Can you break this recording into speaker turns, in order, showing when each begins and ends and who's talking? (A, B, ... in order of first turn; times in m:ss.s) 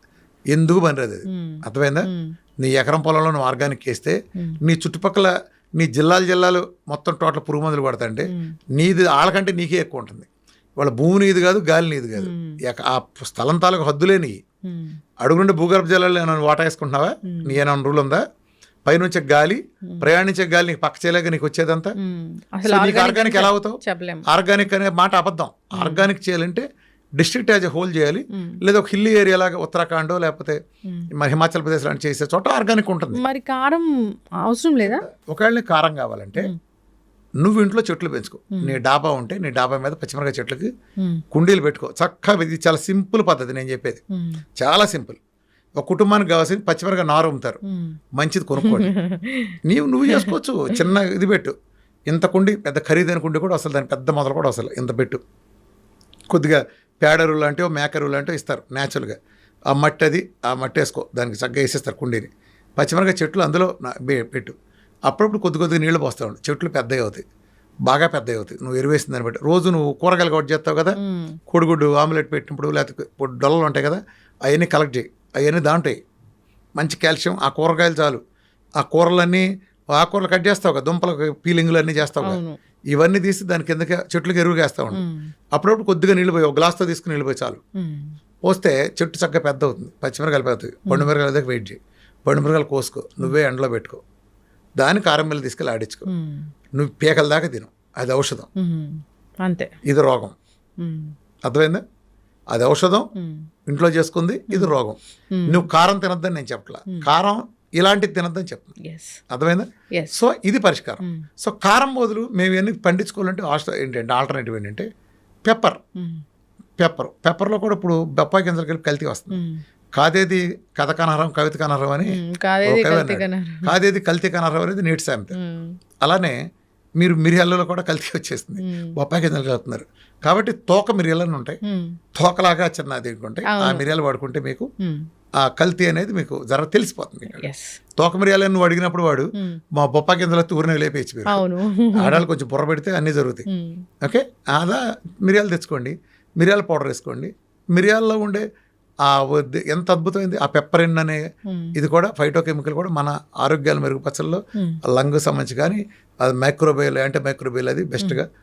0:00.5-0:14.4 A
0:01.3-0:02.4 B
0:08.3-0:08.6 B
0:12.2-0:12.6 B
0:14.7-0:15.0 B
0:15.2-0:18.2 A
0:17.2-0:17.6 B
0:18.9-0:22.0 A
0:22.0-0:24.2 B
0:22.6-0:26.7 A
0:25.7-0:26.1 B
0:27.2-0:30.6 A
0:28.3-0:28.6 B
0:31.1-0:33.2 A
0:33.1-0:35.0 B
0:34.8-0:36.5 A
0:37.4-0:40.7 A
0:38.5-0:38.8 B
0:41.3-0:44.0 A
0:44.1-0:44.4 B
0:44.6-0:45.2 A
0:45.8-0:47.6 A
0:47.7-0:48.0 B
0:48.2-0:49.0 A
0:48.6-0:49.6 B
0:49.6-0:51.5 A
0:50.1-0:50.4 B
0:52.1-0:55.2 A
0:56.3-0:59.2 A
0:59.7-1:04.6 A
1:05.1-1:07.2 A
1:07.9-1:11.0 A
1:11.0-1:11.4 B
1:11.5-1:16.0 A
1:16.8-1:18.2 A
1:18.8-1:22.4 A
1:22.2-1:22.6 B
1:22.9-1:27.6 A
1:24.9-1:25.3 B
1:27.8-1:28.2 B
1:28.4-1:34.0 A
1:34.8-1:36.1 A
1:36.1-1:36.5 B
1:36.7-1:38.5 A
1:38.6-1:39.7 B
1:39.8-1:40.3 A
1:40.8-1:41.1 B
1:41.4-1:41.8 A
1:42.5-1:43.1 A
1:43.2-1:43.5 B
1:43.7-1:48.7 A
1:45.3-1:45.7 B
1:48.8-1:49.2 B
1:49.3-1:54.9 A
1:51.0-1:51.3 B
1:55.5-1:55.8 A
1:56.0-1:56.2 B
1:56.8-1:59.4 A
1:59.3-1:59.6 B
2:00.0-2:05.4 A
2:02.0-2:03.7 B
2:05.3-2:05.8 B
2:06.0-2:06.4 A
2:07.0-2:11.6 A
2:08.6-2:08.9 B
2:11.6-2:12.0 B
2:12.2-2:14.7 A
2:13.5-2:13.8 B
2:15.4-2:21.4 A
2:17.3-2:17.8 B
2:19.4-2:19.6 B
2:21.3-2:22.2 B
2:22.0-2:23.4 A
2:23.5-2:23.8 B
2:24.0-2:28.4 A
2:29.0-2:31.2 A
2:31.5-2:31.8 B
2:31.8-2:38.3 A
2:34.6-2:34.8 B